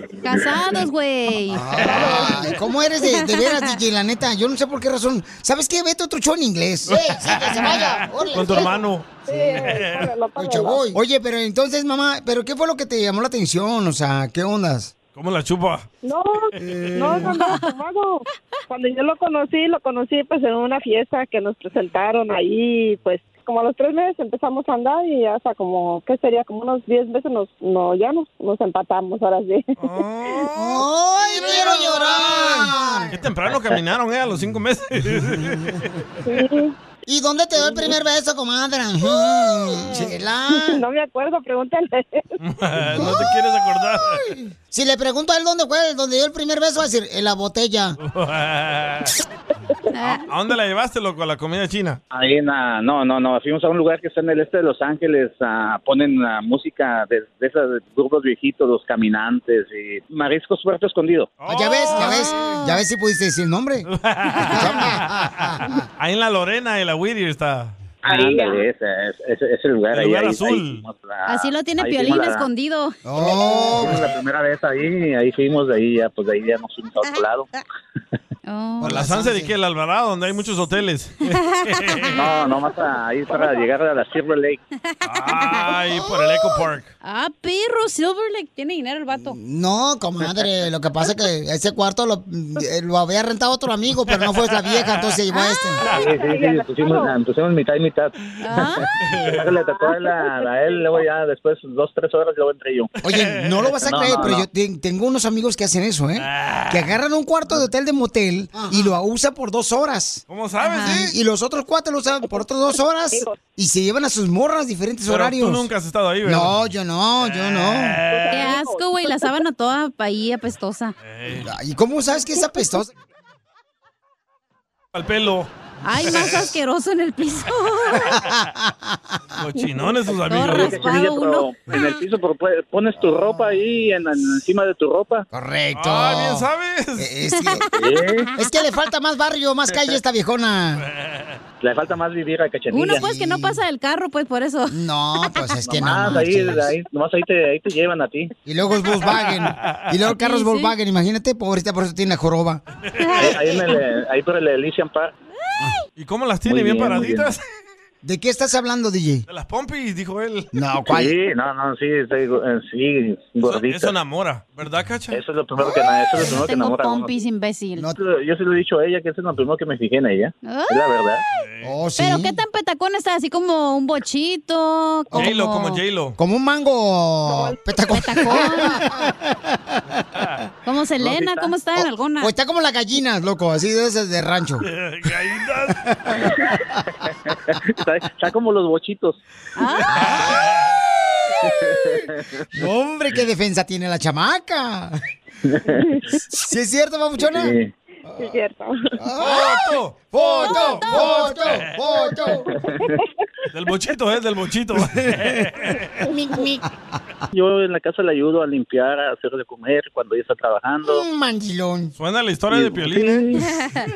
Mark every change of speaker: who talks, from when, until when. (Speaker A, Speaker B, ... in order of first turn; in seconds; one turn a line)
Speaker A: 0.2-2.3
Speaker B: 1.5-8.8
Speaker C: 1.8-2.5
Speaker A: 3.1-3.7
Speaker D: 6.9-10.1
Speaker C: 9.3-10.9
Speaker B: 10.4-14.9
Speaker D: 15.1-15.9
Speaker C: 16.0-29.8
Speaker D: 16.6-17.2
Speaker A: 17.2-17.7
Speaker D: 29.8-30.9
Speaker B: 30.6-33.1
Speaker D: 33.1-35.9
Speaker C: 36.2-36.7
Speaker B: 37.1-40.8
Speaker C: 37.6-37.9
Speaker C: 40.5-42.3
Speaker D: 42.4-44.3
Speaker B: 42.9-43.3
Speaker B: 44.7-48.0
Speaker D: 48.0-49.1
Speaker A: 49.9-50.2
Speaker D: 50.0-52.0
Speaker E: 52.1-61.3
Speaker D: 61.4-62.5
Speaker B: 61.5-63.9
Speaker A: 61.9-62.8
Speaker D: 63.9-67.7
Speaker A: 64.3-64.7
Speaker B: 64.5-65.8
Speaker E: 68.0-72.5
Speaker D: 69.9-70.8
Speaker A: 71.3-73.0
Speaker B: 73.0-74.0
Speaker E: 73.2-77.5
Speaker A: 78.5-79.1
Speaker B: 78.8-79.5
Speaker D: 78.8-82.3
Speaker A: 81.5-82.1
Speaker E: 82.1-84.6
Speaker A: 84.9-86.4
Speaker D: 85.0-86.9
Speaker A: 87.0-89.4
Speaker B: 89.2-95.9
Speaker D: 94.1-95.1
Speaker A: 95.3-95.6
Speaker E: 95.9-102.9
Speaker C: 95.9-97.1
Speaker A: 98.4-99.0
Speaker C: 99.5-101.0
Speaker B: 103.0-110.2
Speaker D: 103.1-103.7
Speaker E: 103.8-104.5
Speaker D: 106.2-107.0
Speaker D: 110.3-111.1
Speaker A: 110.6-111.0
Speaker B: 110.8-115.7
Speaker D: 115.1-116.6
Speaker B: 116.2-118.0
Speaker D: 117.2-118.5
Speaker C: 118.1-119.3
Speaker A: 118.3-121.0
Speaker D: 121.0-121.5
Speaker B: 121.3-122.9
Speaker D: 124.9-125.5
Speaker A: 125.8-128.2
Speaker D: 126.1-126.5
Speaker B: 128.3-128.7
Speaker D: 129.4-131.0
Speaker A: 130.3-131.9
Speaker E: 130.5-135.3
Speaker B: 135.3-137.7
Speaker D: 135.7-137.1
Speaker A: 137.4-138.3
Speaker E: 137.7-138.3
Speaker B: 138.3-140.8
Speaker D: 140.9-141.4
Speaker E: 141.6-143.1
Speaker A: 142.7-144.8
Speaker B: 142.9-143.6
Speaker B: 144.7-146.7
Speaker E: 145.6-148.3
Speaker B: 148.4-152.6
Speaker D: 149.1-149.8
Speaker A: 150.2-150.7
Speaker A: 153.0-153.3
Speaker E: 153.2-155.1
Speaker D: 156.0-157.4
Speaker E: 156.5-157.3
Speaker B: 158.0-159.3
Speaker D: 159.3-160.5
Speaker B: 160.5-161.1
Speaker E: 160.9-163.9
Speaker D: 163.4-165.2
Speaker E: 165.1-167.1
Speaker A: 166.1-167.9
Speaker E: 167.9-171.2
Speaker A: 170.4-170.8
Speaker D: 171.3-171.7
Speaker B: 171.6-172.4
Speaker A: 172.0-175.8
Speaker D: 175.1-176.2
Speaker B: 176.2-179.8
Speaker C: 177.3-177.6
Speaker A: 177.9-178.8
Speaker A: 180.6-182.3
Speaker E: 181.0-181.5
Speaker B: 182.2-184.7
Speaker D: 184.7-185.8
Speaker E: 187.3-189.2
Speaker A: 189.6-190.0
Speaker D: 189.7-190.7
Speaker B: 189.9-190.4
Speaker E: 191.5-192.4
Speaker B: 192.5-195.0
Speaker E: 195.4-195.8
Speaker B: 196.3-197.5
Speaker E: 197.3-197.7
Speaker C: 198.2-198.9
Speaker B: 199.0-202.5
Speaker D: 199.2-201.8
Speaker A: 200.4-201.4
Speaker E: 202.6-202.9
Speaker D: 203.5-206.0
Speaker B: 206.1-206.7
Speaker E: 207.3-211.0
Speaker B: 210.9-211.9
Speaker D: 211.9-213.3
Speaker E: 212.5-213.4